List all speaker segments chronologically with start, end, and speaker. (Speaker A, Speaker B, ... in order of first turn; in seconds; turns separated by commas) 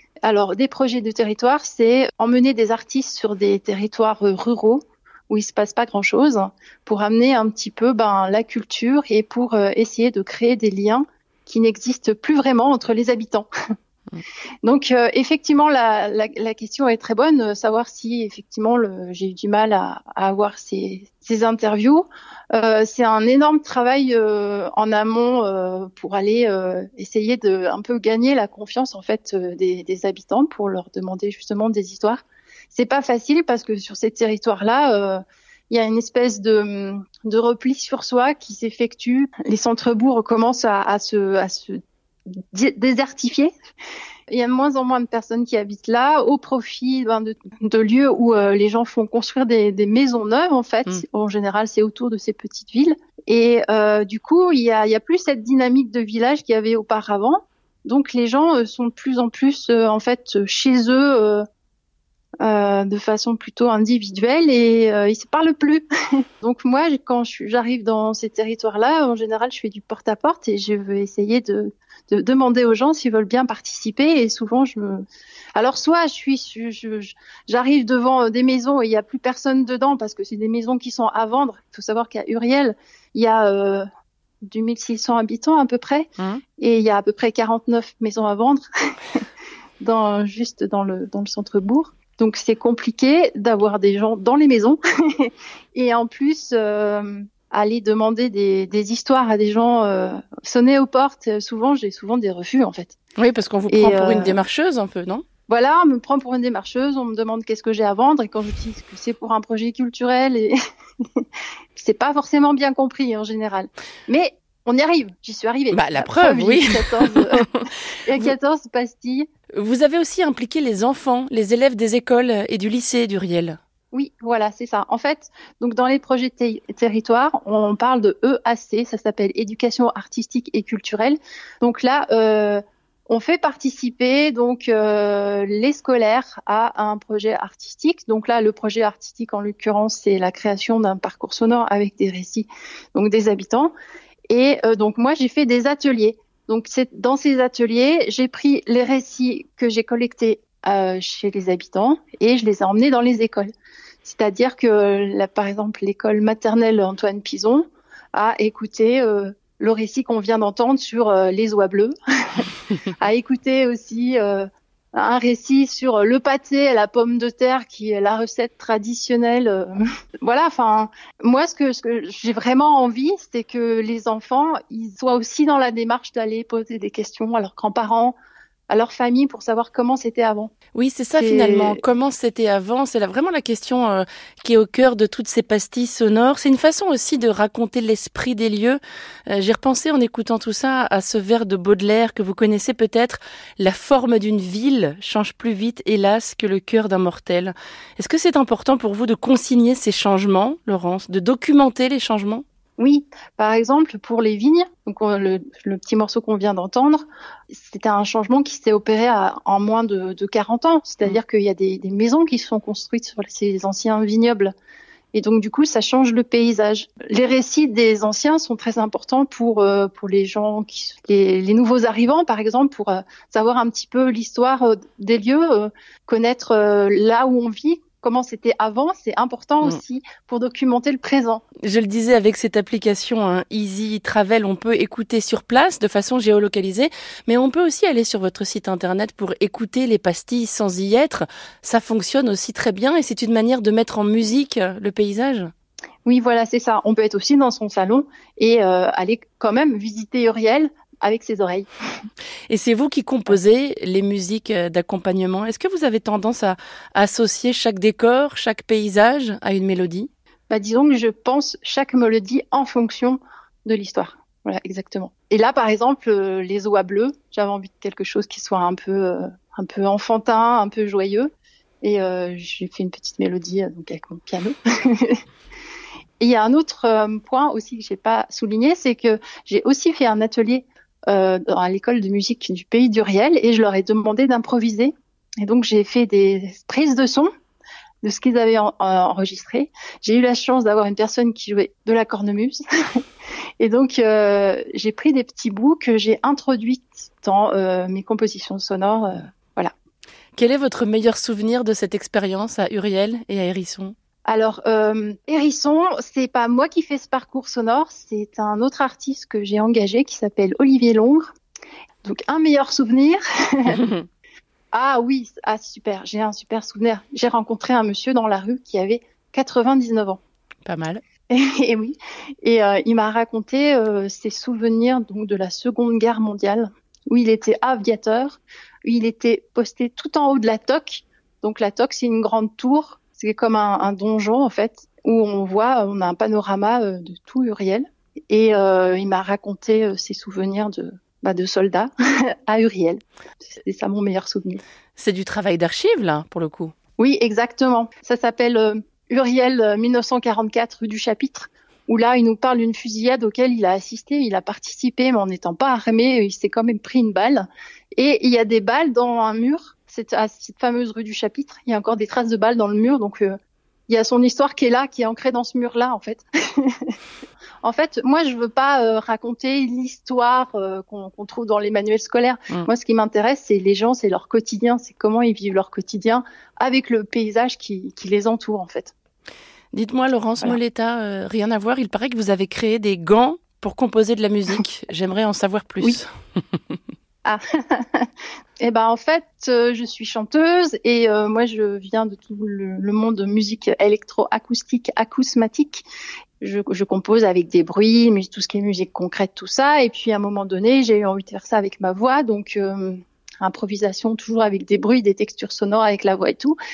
Speaker A: 0.2-13.5, Speaker A: 14.6-41.8, Speaker A: 42.5-43.5, Speaker A: 44.3-61.4, Speaker A: 62.4-65.8, Speaker A: 66.4-83.8, Speaker A: 84.4-89.2, Speaker A: 89.8-103.0, Speaker B: 103.2-105.2, Speaker A: 103.7-104.4, Speaker A: 105.5-110.5, Speaker A: 111.2-117.5, Speaker B: 115.7-117.7, Speaker A: 118.0-119.3, Speaker B: 119.5-123.6, Speaker A: 123.9-143.7, Speaker A: 144.3-153.5, Speaker A: 154.0-178.2, Speaker A: 178.7-180.5, Speaker B: 180.7-202.4, Speaker A: 181.2-181.8, Speaker A: 202.8-214.5, Speaker A: 215.1-231.4, Speaker B: 231.6-245.5, Speaker A: 246.0-251.7, Speaker B: 252.5-260.1, Speaker A: 260.5-271.3, Speaker A: 271.8-275.2, Speaker A: 276.2-287.3, Speaker A: 288.0-293.0, Speaker A: 293.6-299.7, Speaker B: 300.4-303.9, Speaker A: 304.2-311.3, Speaker A: 312.0-313.8, Speaker A: 314.7-320.2, Speaker B: 320.6-321.0, Speaker A: 321.3-341.9, Speaker A: 342.4-343.0, Speaker A: 343.5-344.6, Speaker B: 345.0-346.7, Speaker A: 347.0-363.4, Speaker A: 363.9-366.9, Speaker A: 367.6-378.9, Speaker B: 379.7-386.0, Speaker A: 387.2-388.1, Speaker A: 388.6-395.8, Speaker A: 396.4-406.6